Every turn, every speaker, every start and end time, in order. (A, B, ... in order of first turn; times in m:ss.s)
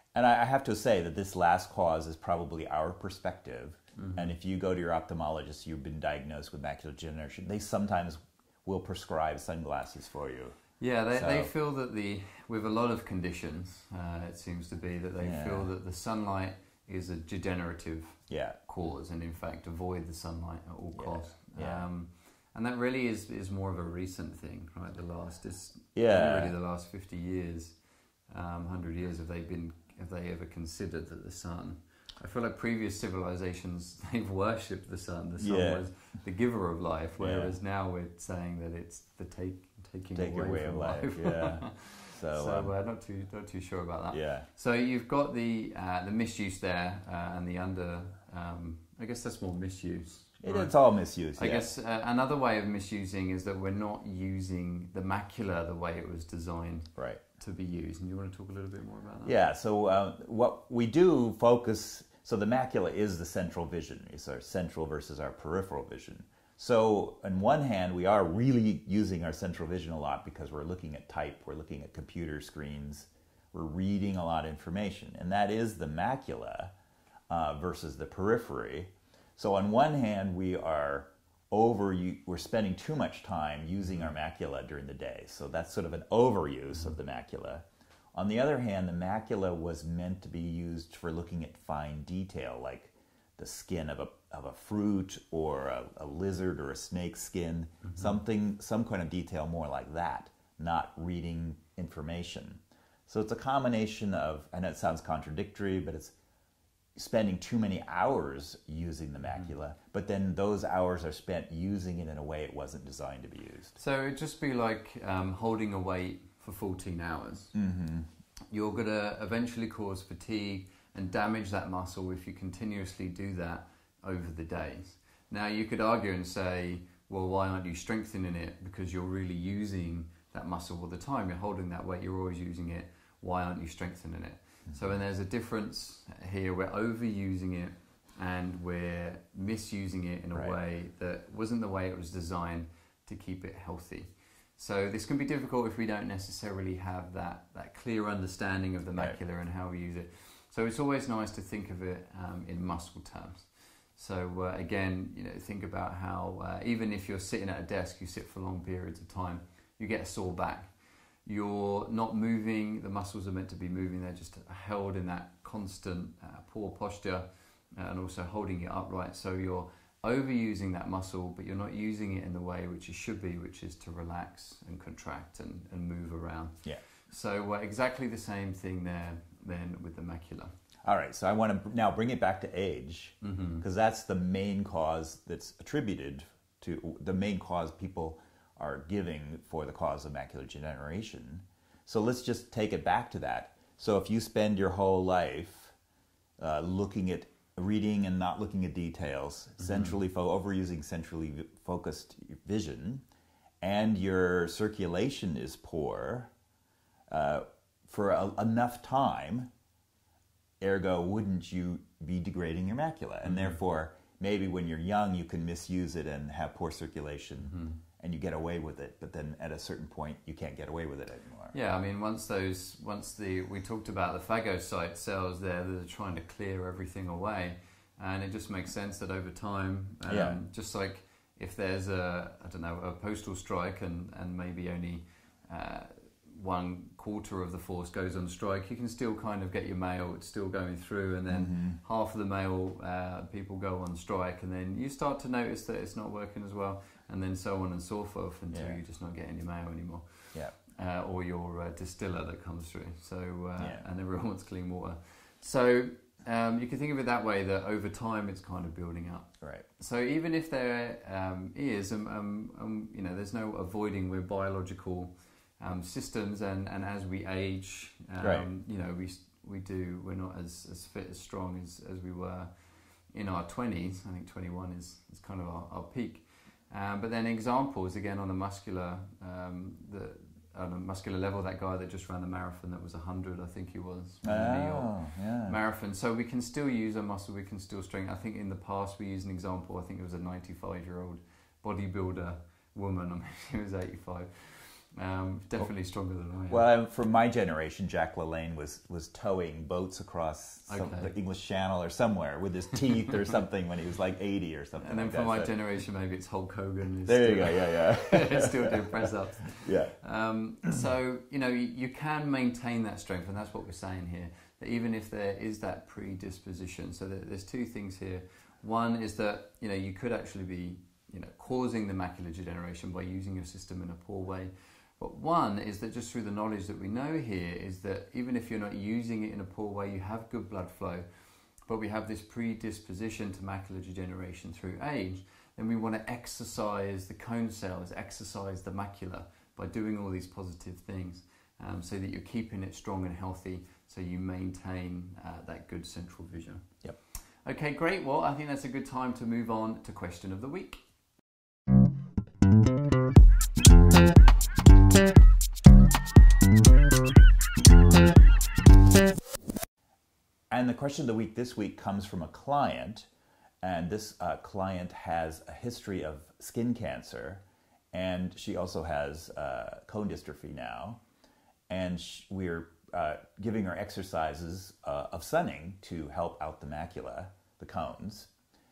0:00.1-0:10.5 A
0:04.0-0:04.3 B
0:10.8-0:27.8 B
0:11.1-0:11.5 A
0:15.2-0:15.7 A
0:18.3-0:18.6 A
0:21.0-0:21.8 A
0:26.0-0:26.5 A
0:28.3-0:50.7 B
0:35.4-0:35.8 A
0:37.2-0:37.5 A
0:40.1-0:42.7 A
0:44.1-0:44.5 A
0:50.4-0:51.7 A
0:51.4-0:59.3 B
0:57.0-0:57.2 A
0:59.2-1:16.7 A
1:17.3-1:46.1 A
1:37.8-1:38.1 B
1:47.0-1:53.8 A
1:53.8-1:57.5 B
1:57.5-1:58.1 A
1:58.5-2:40.7 B
2:41.3-2:56.6 B
2:57.1-3:00.5 B
3:00.8-3:15.8 A
3:03.2-3:03.6 B
3:16.4-3:23.0 A
3:19.6-3:20.0 B
3:23.6-3:26.3 A
3:27.1-3:29.5 A
3:30.6-3:41.5 A
3:33.2-3:33.6 B
3:37.5-3:37.8 B
3:41.5-4:10.0 B
3:50.1-3:50.4 A
4:01.3-4:01.8 A
4:08.5-4:08.8 A
4:10.7-4:32.5 B
4:13.6-4:13.8 A
4:28.2-4:28.5 A
4:33.1-4:56.7 B
4:44.2-4:45.6 A
4:56.5-5:05.5 A
5:00.7-5:01.1 B
5:04.8-5:31.1 B
5:07.1-5:09.9 A
5:31.7-5:46.7 B
5:47.4-5:50.8 B
6:00.5-6:03.1 A
6:03.6-6:11.0 A
6:11.7-6:18.3 A